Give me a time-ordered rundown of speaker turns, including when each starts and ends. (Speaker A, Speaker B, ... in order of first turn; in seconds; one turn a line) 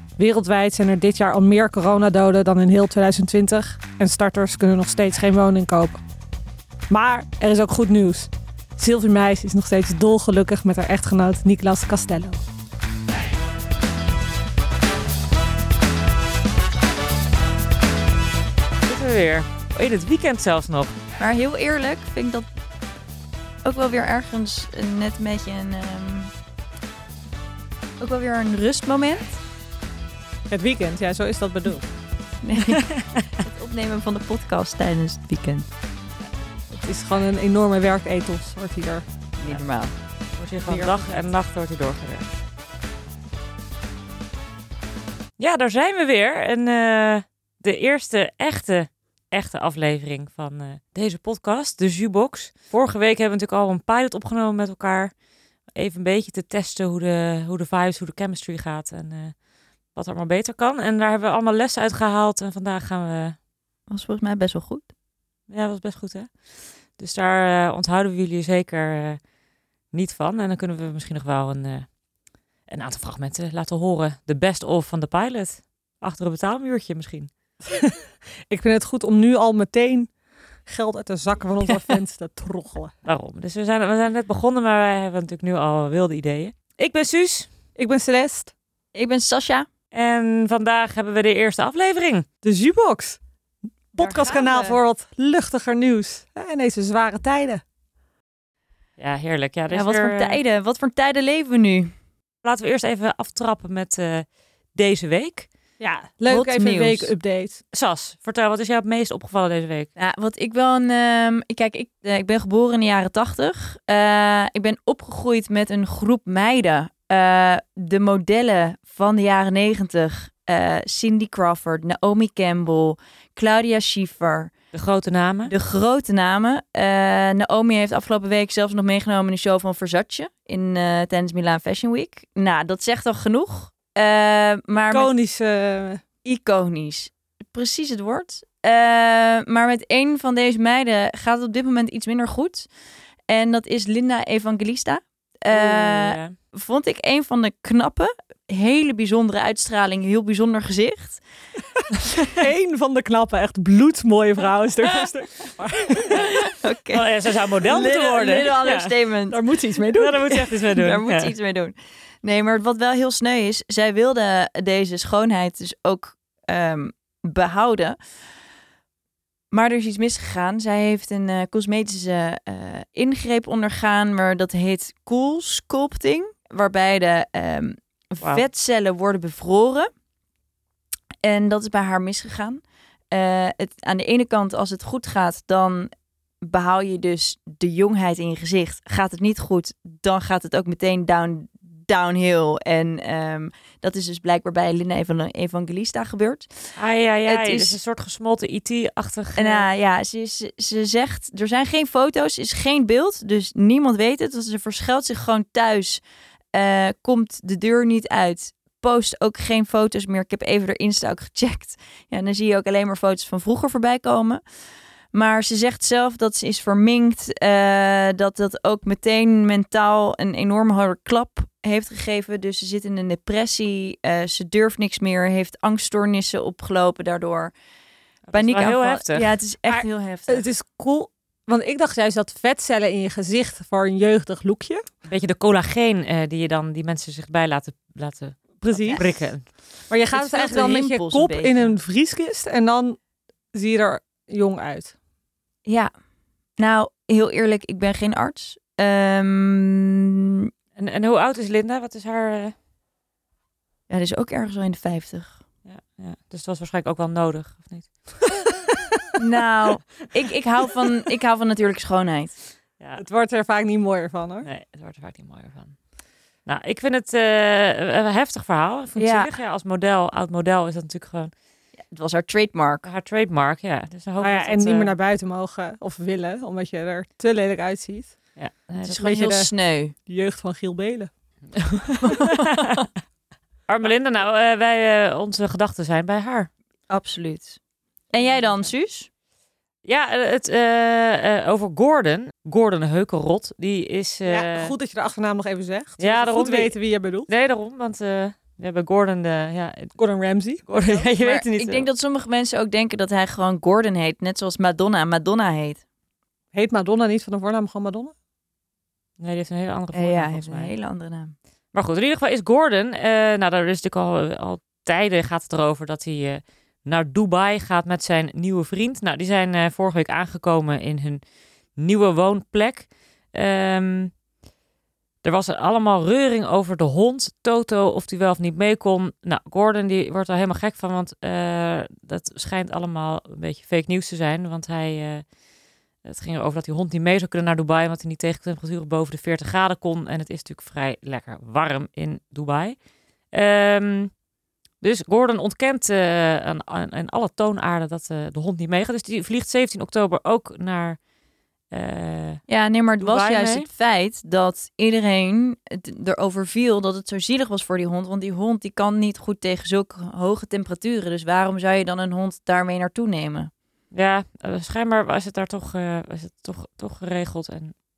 Speaker A: 0.2-6.0
Speaker A: 6.9-12.4
Speaker B: 18.9-21.0
Speaker C: 21.2-22.5
Speaker C: 23.6-26.3
Speaker C: 28.0-29.4
Speaker A: 30.5-31.9
Speaker C: 32.4-35.7
Speaker B: 32.8-33.0
Speaker A: 36.7-39.0
Speaker C: 39.4-39.9
Speaker B: 40.4-42.3
Speaker A: 40.6-41.0
Speaker B: 45.4-55.1
Speaker B: 55.8-59.4
Speaker B: 60.0-63.4
Speaker C: 63.9-64.9
Speaker B: 65.5-66.3
Speaker B: 67.0-69.2
Speaker B: 69.9-71.9
Speaker B: 72.7-77.3
Speaker A: 77.7-78.0
Speaker A: 78.5-80.1
Speaker A: 80.7-82.9
Speaker B: 83.0-87.5
Speaker A: 87.8-88.5
Speaker C: 88.9-89.7
Speaker B: 89.9-92.3
Speaker A: 92.4-93.2
Speaker A: 93.9-97.6
Speaker C: 94.0-94.8
Speaker B: 99.0-100.4
Speaker C: 99.7-101.9
Speaker B: 102.4-105.5
Speaker A: 105.8-107.6
Speaker C: 106.3-107.1
Speaker B: 107.7-109.9
Speaker C: 110.0-124.5
Speaker B: 124.7-125.5
Speaker C: 125.5-135.1
Speaker A: 134.9-136.0
Speaker C: 136.2-142.7
Speaker C: 143.3-151.2
Speaker B: 145.5-146.3
Speaker A: 152.3-156.3
Speaker C: 156.1-159.4
Speaker B: 156.9-158.9
Speaker A: 159.3-160.5
Speaker B: 159.9-161.3
Speaker C: 160.7-168.0
Speaker C: 169.5-179.9
Speaker C: 181.2-185.9
Speaker C: 186.4-196.5
Speaker B: 196.8-199.7
Speaker C: 197.3-197.8
Speaker C: 199.4-206.0
Speaker C: 206.5-214.4
Speaker C: 215.1-227.5
Speaker B: 228.3-229.3
Speaker C: 228.3-230.4
Speaker A: 229.7-234.8
Speaker B: 235.1-239.5
Speaker A: 238.6-239.2
Speaker C: 238.7-239.1
Speaker A: 239.9-243.0
Speaker C: 240.1-241.8
Speaker A: 243.5-244.9
Speaker C: 245.7-245.9
Speaker C: 246.6-250.5
Speaker B: 250.8-252.6
Speaker C: 253.9-255.4
Speaker B: 255.7-257.9
Speaker C: 259.2-262.4
Speaker A: 263.0-264.5
Speaker B: 264.4-265.8
Speaker B: 266.5-271.3
Speaker C: 269.0-269.3
Speaker C: 271.9-272.9
Speaker B: 272.9-274.9
Speaker A: 274.2-278.1
Speaker B: 278.4-279.0
Speaker C: 278.8-279.9
Speaker A: 279.0-279.5
Speaker A: 280.1-281.1
Speaker B: 281.6-282.8
Speaker C: 282.0-282.9
Speaker B: 283.7-286.5
Speaker C: 286.9-287.6
Speaker C: 288.1-289.1
Speaker B: 288.3-288.7
Speaker B: 289.9-294.7
Speaker A: 294.3-297.3
Speaker B: 296.0-296.8
Speaker B: 297.3-299.9
Speaker A: 300.0-300.7
Speaker B: 300.7-301.9
Speaker C: 301.1-305.8
Speaker A: 306.5-308.1
Speaker B: 309.2-310.7
Speaker C: 309.9-311.3
Speaker B: 311.7-321.2
Speaker B: 321.8-324.1
Speaker B: 325.2-335.2
Speaker B: 336.0-342.8
Speaker B: 343.3-344.1
Speaker B: 344.8-351.0
Speaker B: 351.7-352.4
Speaker C: 352.5-363.5
Speaker B: 353.0-353.7
Speaker B: 363.9-367.8